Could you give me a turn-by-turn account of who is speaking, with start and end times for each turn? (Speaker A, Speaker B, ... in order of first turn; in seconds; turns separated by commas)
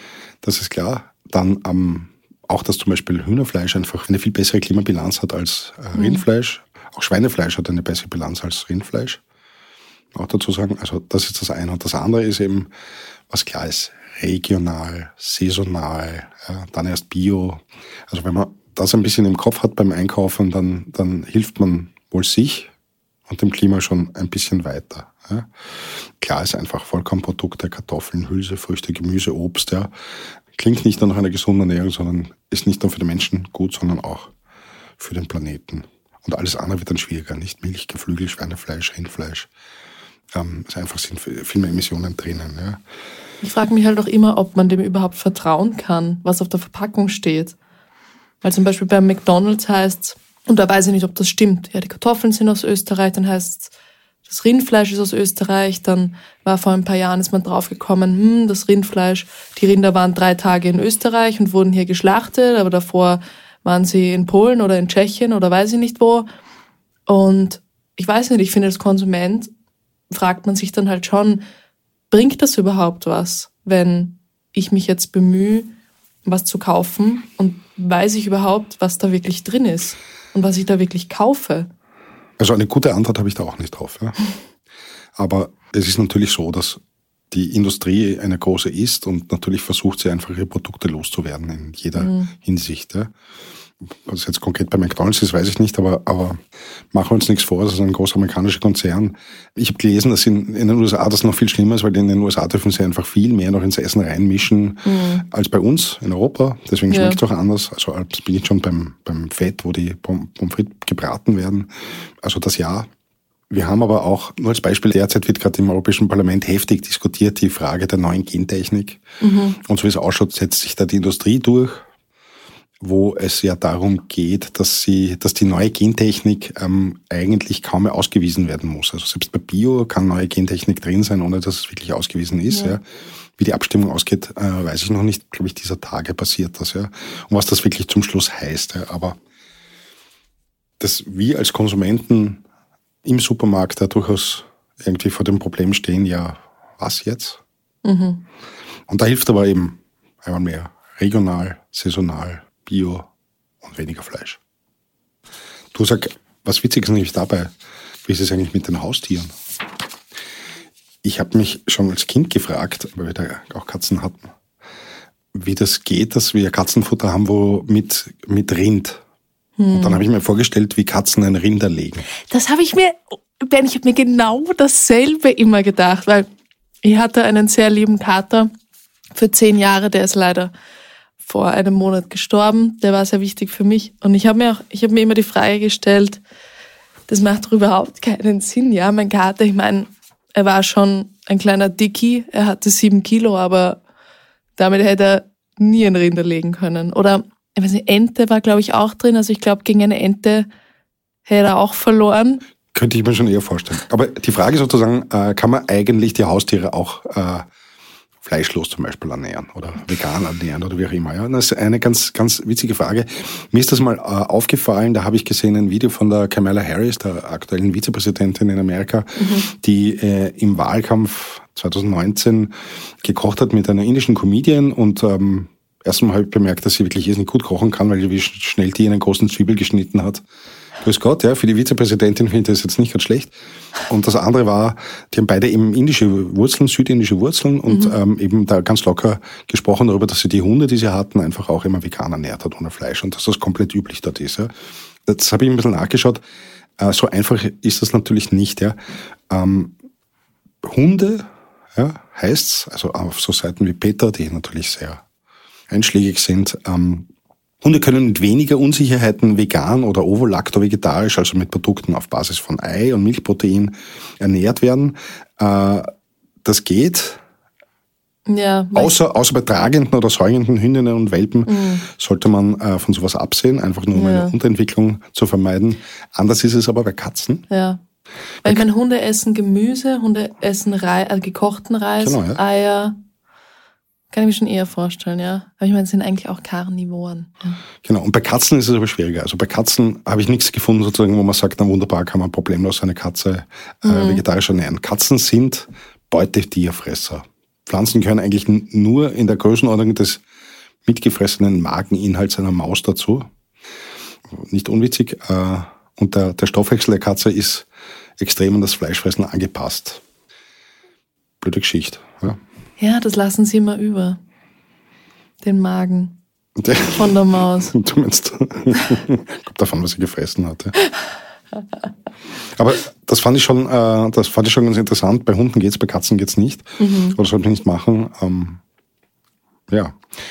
Speaker A: 0.4-9.2, Speaker B: 5.9-6.2, Speaker A: 10.1-12.7, Speaker A: 13.3-22.7, Speaker A: 23.3-29.9, Speaker A: 30.5-34.3, Speaker A: 35.0-39.5, Speaker A: 40.3-42.8, Speaker B: 43.4-47.5, Speaker B: 48.4-53.7, Speaker B: 54.2-66.3, Speaker B: 67.1-69.5, Speaker B: 70.1-71.4, Speaker B: 72.1-75.7, Speaker B: 76.2-81.7, Speaker A: 82.4-84.2, Speaker A: 85.2-86.8, Speaker A: 87.3-93.1, Speaker B: 92.0-92.3, Speaker A: 94.0-96.4, Speaker A: 96.9-112.9, Speaker B: 104.8-105.2, Speaker B: 106.9-107.2, Speaker A: 113.5-119.0, Speaker B: 119.2-119.6, Speaker A: 119.6-121.8, Speaker A: 122.8-132.8, Speaker B: 132.5-132.8, Speaker A: 133.4-139.2, Speaker A: 140.8-142.4, Speaker A: 143.0-147.4, Speaker B: 147.8-148.2, Speaker A: 148.9-153.1, Speaker A: 153.6-154.4, Speaker A: 155.7-157.5, Speaker A: 158.0-159.3, Speaker A: 161.0-164.3, Speaker A: 165.3-169.0, Speaker B: 169.6-170.0, Speaker A: 169.7-172.1, Speaker B: 172.3-176.3, Speaker B: 176.8-178.5, Speaker B: 179.1-180.5, Speaker B: 181.2-186.2, Speaker B: 187.1-193.8, Speaker B: 194.6-200.5, Speaker B: 201.2-202.4, Speaker A: 202.7-207.4, Speaker A: 208.2-230.2, Speaker B: 219.2-219.4, Speaker A: 230.8-233.3, Speaker A: 233.9-244.5, Speaker B: 237.7-237.9, Speaker A: 245.1-246.2, Speaker A: 246.8-248.8, Speaker A: 249.3-249.7, Speaker A: 250.6-255.0, Speaker A: 255.7-257.1, Speaker A: 257.6-265.9, Speaker A: 266.4-267.2, Speaker B: 268.3-268.9, Speaker A: 268.7-277.4, Speaker B: 271.5-271.8, Speaker B: 273.9-274.3, Speaker B: 277.5-277.8, Speaker B: 278.4-283.0, Speaker A: 282.0-282.4, Speaker B: 284.1-287.6, Speaker A: 287.8-300.2, Speaker B: 293.8-294.2, Speaker A: 300.8-303.3, Speaker A: 304.3-307.7, Speaker A: 308.2-310.0, Speaker A: 311.4-312.4, Speaker B: 312.8-314.2, Speaker B: 315.4-316.2, Speaker A: 316.6-320.8, Speaker B: 316.9-317.7, Speaker A: 322.6-328.6, Speaker B: 326.8-327.2, Speaker A: 329.7-330.0